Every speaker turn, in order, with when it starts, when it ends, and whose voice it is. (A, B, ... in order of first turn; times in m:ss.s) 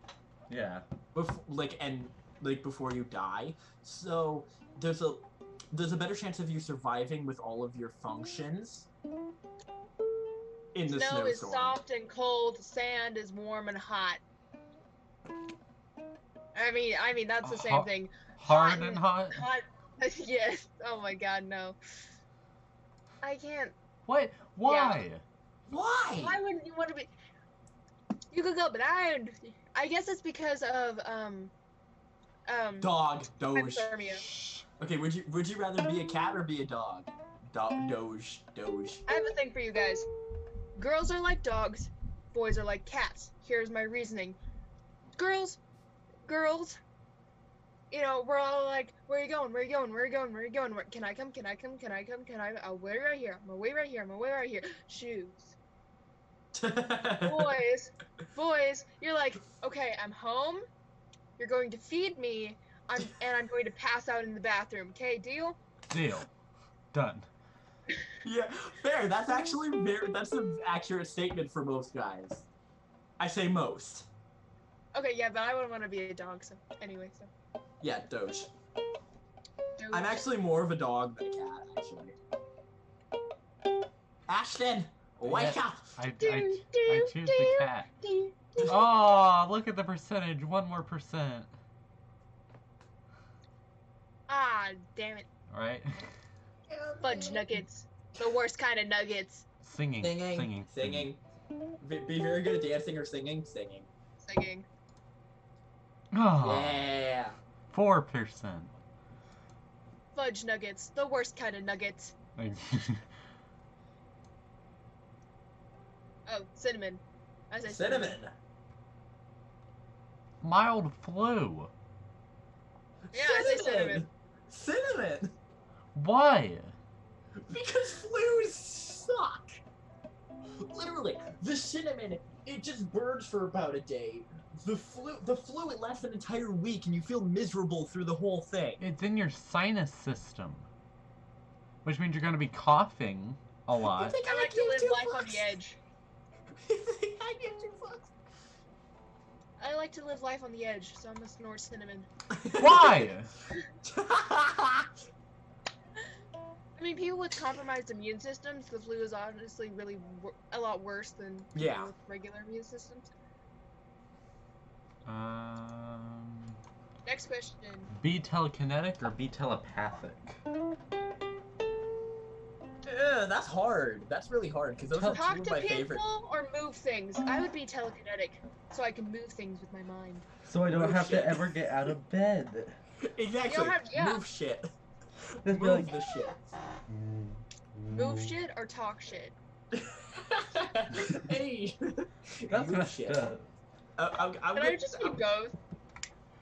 0:00.5-0:00.8 A
0:01.1-0:08.9 B
0:10.7-0:11.8 B
0:10.9-0:14.2 C
0:16.5-0:21.8 C
0:17.4-0:19.4 A
0:23.2-0:23.7 C
0:24.1-0:25.2 A
0:24.6-0:25.0 C
0:25.7-0:26.4 B
0:26.2-0:27.1 C
0:28.3-0:31.5 C
0:32.5-0:32.9 C
0:32.8-0:33.9 B
0:33.5-0:34.2 C
0:34.3-0:34.6 A
0:34.8-0:39.0 B
0:39.1-0:40.1 C
0:40.8-0:44.4 C
0:45.2-0:45.6 C
0:46.3-0:46.8 C
0:47.9-0:55.5 C
0:56.5-0:57.6 B
0:57.2-1:00.6 C
1:01.4-1:05.6 C
1:05.9-1:06.3 A
1:06.9-1:07.3 A
1:08.2-1:12.4 B
1:13.2-1:14.1 B
1:14.9-1:17.3 C
1:17.8-1:18.5 B
1:19.8-1:20.2 C
1:19.9-1:22.2 B
1:24.3-1:25.8 B
1:25.2-1:27.9 A
1:26.2-1:28.8 C
1:28.6-1:31.5 A
1:34.3-1:35.3 C
1:35.5-1:36.1 A
1:36.7-1:37.5 B
1:37.0-1:39.4 C
1:39.6-1:41.1 A
1:40.0-1:41.2 B
1:41.8-1:43.9 B
1:44.2-1:44.6 C
1:46.1-1:46.9 A
1:46.4-1:47.4 B
1:47.7-1:48.7 A
1:50.1-1:52.2 C
1:52.4-1:53.1 A
1:56.2-1:58.2 C
1:57.6-1:58.3 B
2:00.4-2:01.7 A
2:03.1-2:05.3 B
2:03.1-2:04.0 C
2:05.9-2:06.7 A
2:07.4-2:09.6 B
2:10.6-2:18.8 B
2:18.8-2:20.7 A
2:21.8-2:24.2 A
2:23.8-2:25.5 B
2:24.2-2:25.8 C
2:26.5-2:28.1 B
2:29.6-2:32.1 C
2:32.3-2:33.1 B
2:32.5-2:33.3 A
2:33.8-2:34.9 B
2:36.8-2:43.1 C
2:41.5-2:41.9 B
2:45.0-2:46.6 A
2:47.0-2:47.9 C
2:47.9-2:50.4 A
2:52.8-2:56.0 B
2:54.9-2:55.2 A
2:55.1-3:00.2 C
3:00.4-3:02.8 A
3:00.7-3:01.6 B
3:03.0-3:04.7 B
3:03.4-3:04.2 C
3:05.3-3:06.5 B
3:05.4-3:06.0 A
3:06.9-3:08.4 A
3:07.9-3:09.3 C
3:09.7-3:13.3 B
3:12.5-3:13.5 A
3:14.0-3:15.2 B
3:14.5-3:15.5 C